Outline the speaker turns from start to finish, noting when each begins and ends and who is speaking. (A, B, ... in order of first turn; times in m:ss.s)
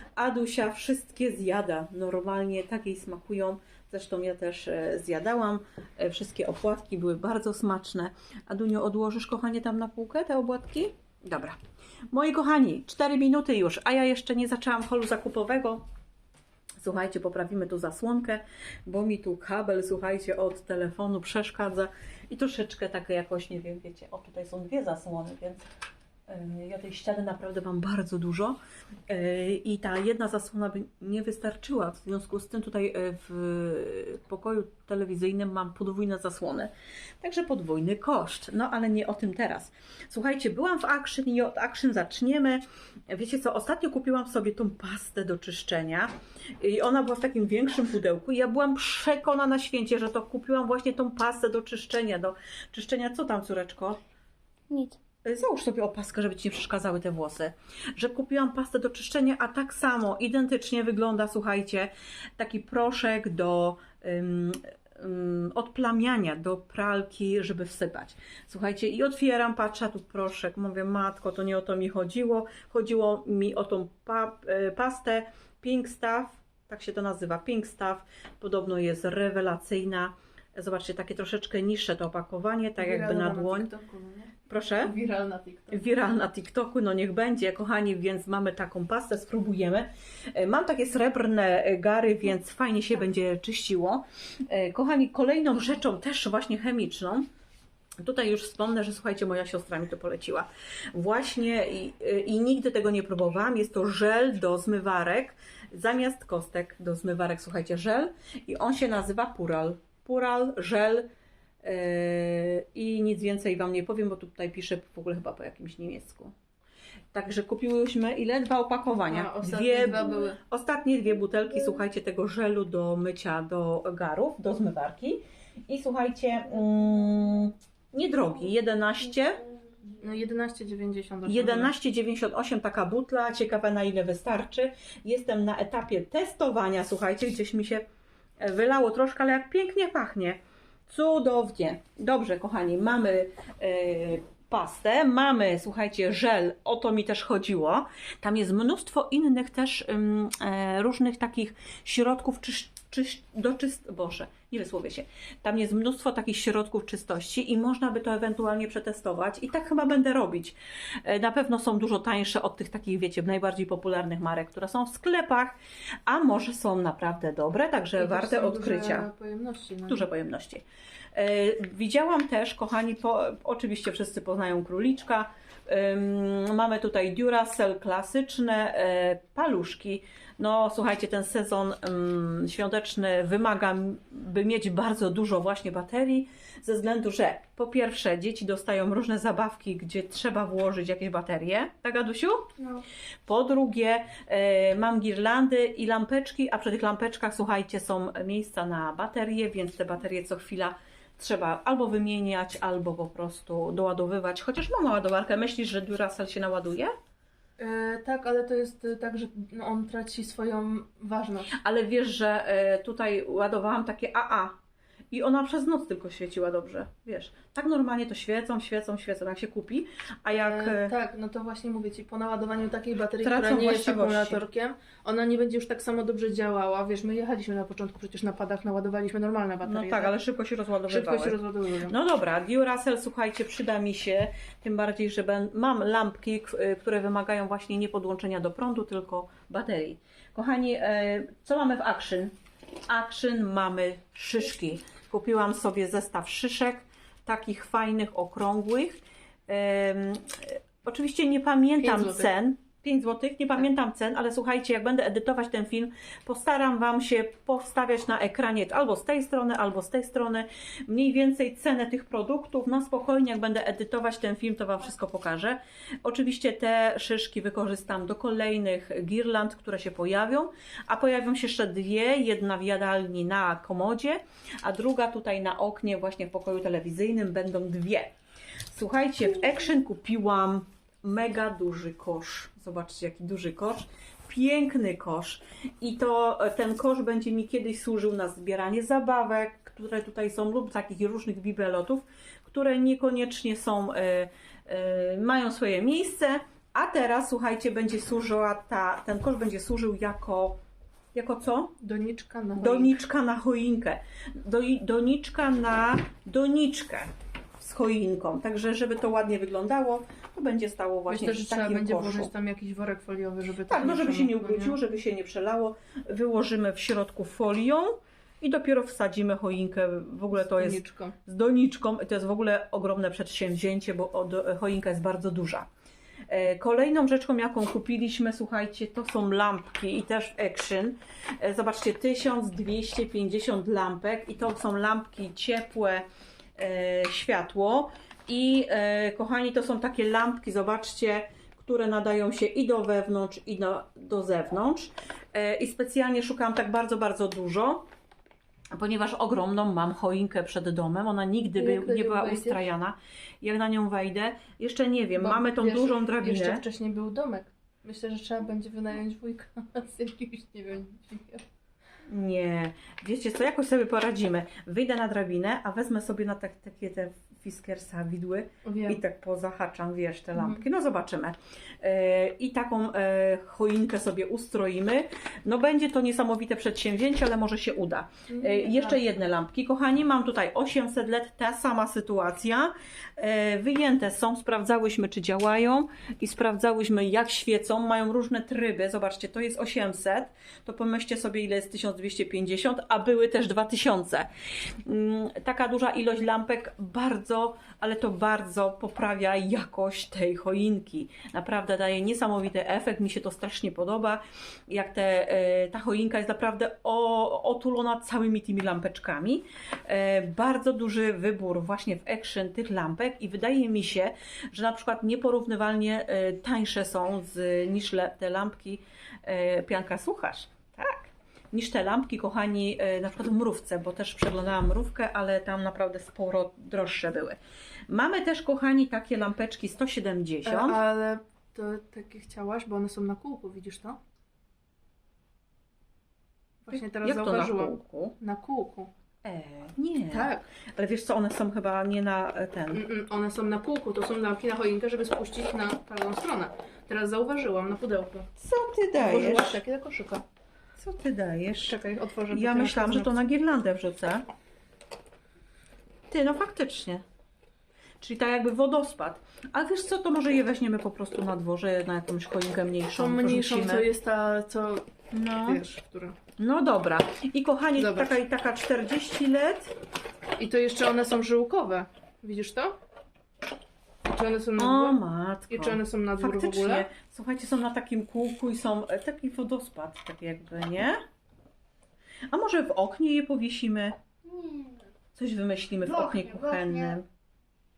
0:00.2-0:11.6 A
0:12.1-0:15.8 A
0:16.8-0:25.6 A
0:26.3-0:28.6 A
0:29.1-0:54.0 A
0:54.7-0:55.0 B
0:55.2-1:23.7 A
1:22.8-1:25.9 C
1:24.5-1:24.9 A
1:25.7-1:37.3 A
1:38.0-1:51.1 A
1:51.6-1:56.3 A
1:57.1-2:09.4 A
1:59.0-2:00.4 C
2:09.9-2:11.7 C
2:11.3-2:17.8 A
2:18.4-2:49.1 A
2:48.0-2:50.0 C
2:49.9-3:12.5 A
3:13.3-3:26.9 A
3:27.6-3:31.6 C
3:31.5-3:34.6 A
3:35.1-3:40.9 A
3:40.4-3:50.1 C
3:43.2-3:44.4 A
3:49.6-4:02.3 A
3:50.9-3:51.9 C
4:02.9-4:38.1 A
4:11.8-4:12.3 C
4:38.7-5:00.6 A
5:01.1-5:01.7 A
5:01.8-5:03.0 C
5:02.6-5:12.3 A
5:11.1-5:14.8 C
5:13.7-5:25.7 A
5:20.3-5:21.2 C
5:26.3-5:47.8 A
5:48.7-5:56.6 A
5:51.6-5:52.6 C
5:55.2-6:01.4 C
6:02.1-6:34.3 A
6:08.6-6:09.0 C
6:10.3-6:10.6 C
6:18.3-6:19.0 C
6:34.8-7:07.4 A
7:07.9-7:10.8 A
7:10.4-7:14.0 C
7:16.6-7:18.9 C
7:16.7-7:18.2 A
7:19.2-7:22.8 A
7:20.1-7:20.4 C
7:22.7-7:28.3 C
7:28.4-7:29.6 A
7:28.9-7:30.2 C
7:30.8-7:31.8 A
7:31.6-7:33.2 C
7:32.3-7:34.2 A
7:36.1-7:37.0 A
7:38.0-7:43.8 A
7:42.9-7:46.2 C
7:45.1-7:45.6 A
7:46.4-7:49.7 A
7:47.8-7:48.1 C
7:50.4-7:52.8 C
7:54.0-7:55.0 C
7:54.6-8:01.0 A
7:55.5-7:56.9 C
8:02.3-8:04.0 A
8:04.2-8:04.9 B
8:05.1-8:07.0 A
8:05.8-8:07.0 B